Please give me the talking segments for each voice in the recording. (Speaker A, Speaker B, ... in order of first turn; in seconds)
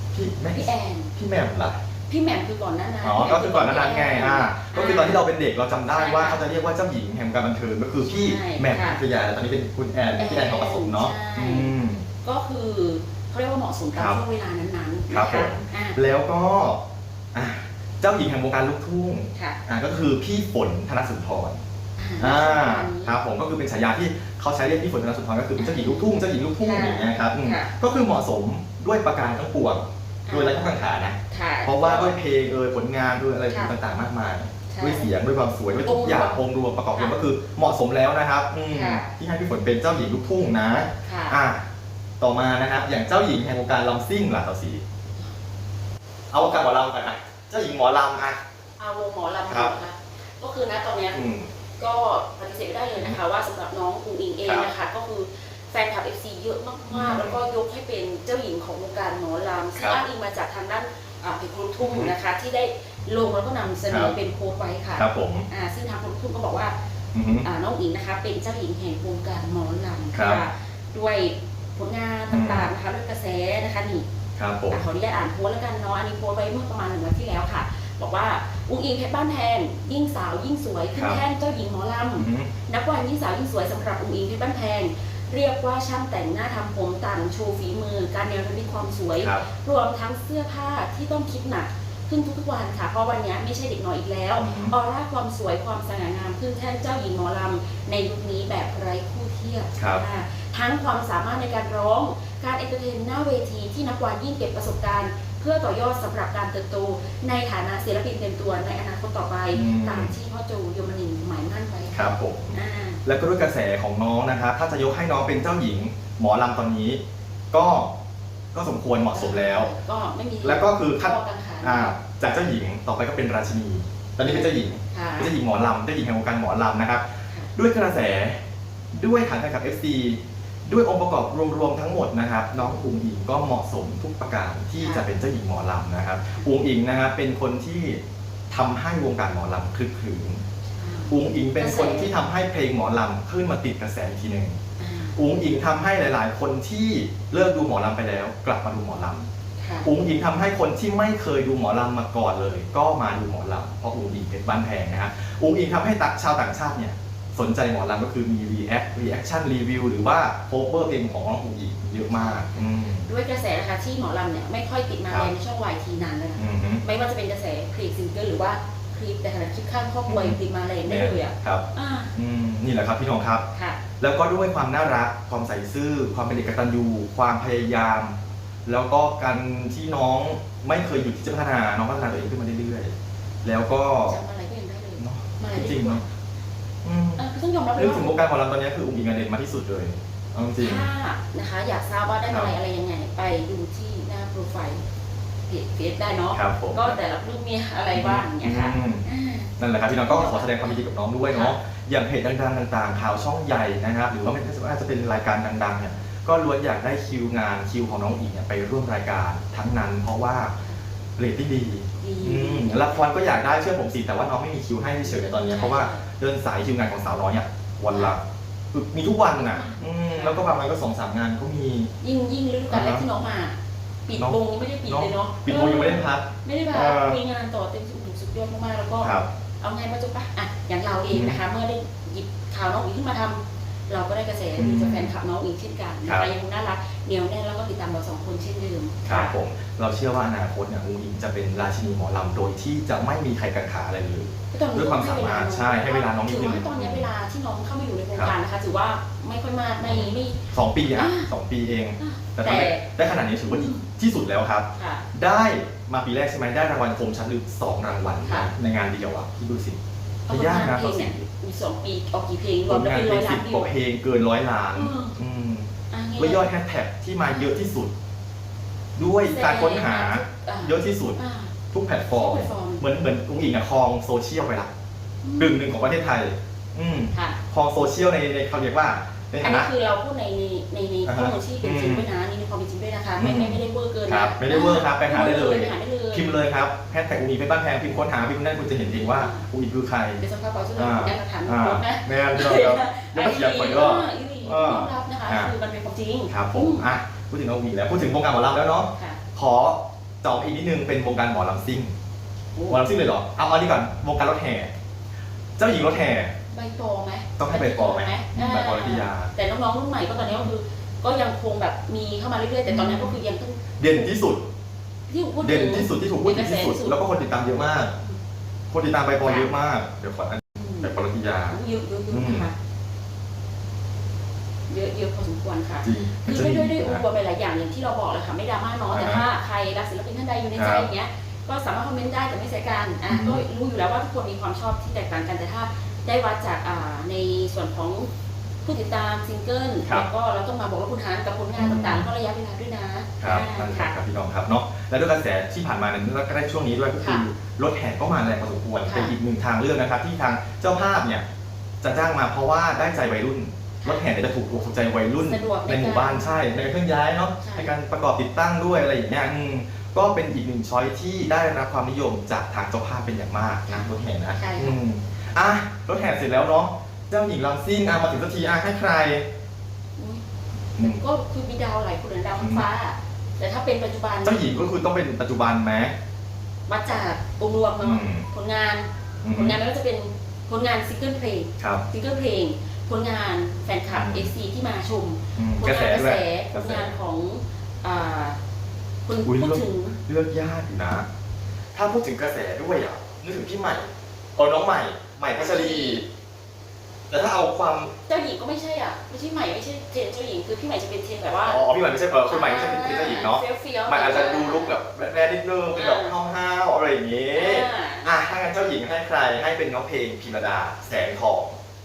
Speaker A: 0.1-1.8, 3.0-12.1, 13.9-14.2, 15.1-16.8, 17.3-21.6, 22.2-41.6, 42.2-44.8, 46.3-48.4, 51.1-51.5, 56.9-57.4, 59.8-60.0, 61.8-62.1, 63.9-64.2, 65.0-65.5, 67.1-67.5, 70.1-70.4, 72.3-72.7, 74.4-74.8, 82.2-82.5, 89.2-89.5, 94.4-94.7, 99.8-100.0, 109.5-110.1, 111.9-117.0, 117.5-117.9, 118.5-119.7, 120.4-128.4, 128.9-140.4, 141.1-144.6, 145.2-149.3, 149.8-163.1, 166.4-166.8, 170.1-171.6, 172.2-173.4, 174.0-182.9, 183.4-184.2, 185.0-186.0, 186.8-187.2, 187.8-190.9, 192.3-192.5, 196.3-197.0, 197.9-199.1, 199.6-210.5, 211.2-218.2, 218.7-221.9, 222.7-223.1, 224.2-227.2, 229.0-229.3, 231.1-231.4, 234.6-235.1, 239.1-247.1, 249.8-259.8, 260.3-261.3, 262.7-267.9, 269.0-271.2, 271.7-274.7, 275.4-279.7, 281.1-282.1, 283.2-290.2, 290.8-295.5, 296.3-301.9, 302.7-304.7, 305.6-306.4, 307.4-309.3, 312.7-313.2, 313.8-314.5, 315.4-317.9, 318.7-321.6, 322.1-322.5, 325.8-327.0, 328.9-329.2, 330.6-330.9, 333.1-333.4, 341.6-342.1, 343.2-351.2, 351.8-369.2, 372.4-372.6, 374.2-375.9, 377.8-378.3, 379.2-379.6, 383.9-384.3, 385.4-386.9, 389.2-391.1, 391.7-396.1, 397.1-397.9, 401.5-411.6
Speaker B: 0.5-1.1, 2.1-5.2, 5.9-6.4, 8.1-9.0, 10.2-11.7, 12.2-16.0, 19.4-19.6, 22.0-23.2, 25.6-27.7, 30.3-30.7, 31.3-32.2, 33.5-33.7, 34.7-35.1, 35.8-36.4, 36.9-37.2, 38.7-39.1, 41.0-41.4, 48.8-51.2, 51.8-66.7, 67.3-74.1, 74.7-113.0, 119.1-122.0, 124.2-125.4, 134.8-135.1, 140.7-142.1, 144.8-145.2, 149.6-149.9, 162.1-162.5, 163.1-172.1, 173.5-173.8, 184.1-186.1, 187.2-188.2, 190.6-194.8, 195.5-201.6, 212.0-213.1, 215.1-216.1, 217.9-218.2, 219.4-220.5, 222.0-239.4, 244.5-251.3, 252.0-252.8, 253.5-253.8, 254.8-255.0, 258.2-258.5, 260.3-263.7, 264.8-265.1, 265.9-266.5, 267.3-267.6, 269.2-271.5, 272.1-272.9, 275.2-275.8, 277.1-277.4, 279.4-286.4, 288.8-289.5, 290.2-296.9, 302.6-302.9, 306.5-314.1, 315.1-317.0, 319.2-319.5, 320.6-320.9, 321.5-322.5, 324.7-338.1, 338.6-343.9, 347.0-347.3, 348.9-349.2, 355.2-356.4, 357.4-357.7, 363.7-364.8, 370.0-370.2, 370.8-374.7, 376.7-388.4, 389.1-390.0, 395.4-396.1, 398.1-401.6, 402.2-404.8, 405.7-406.1, 407.3-408.1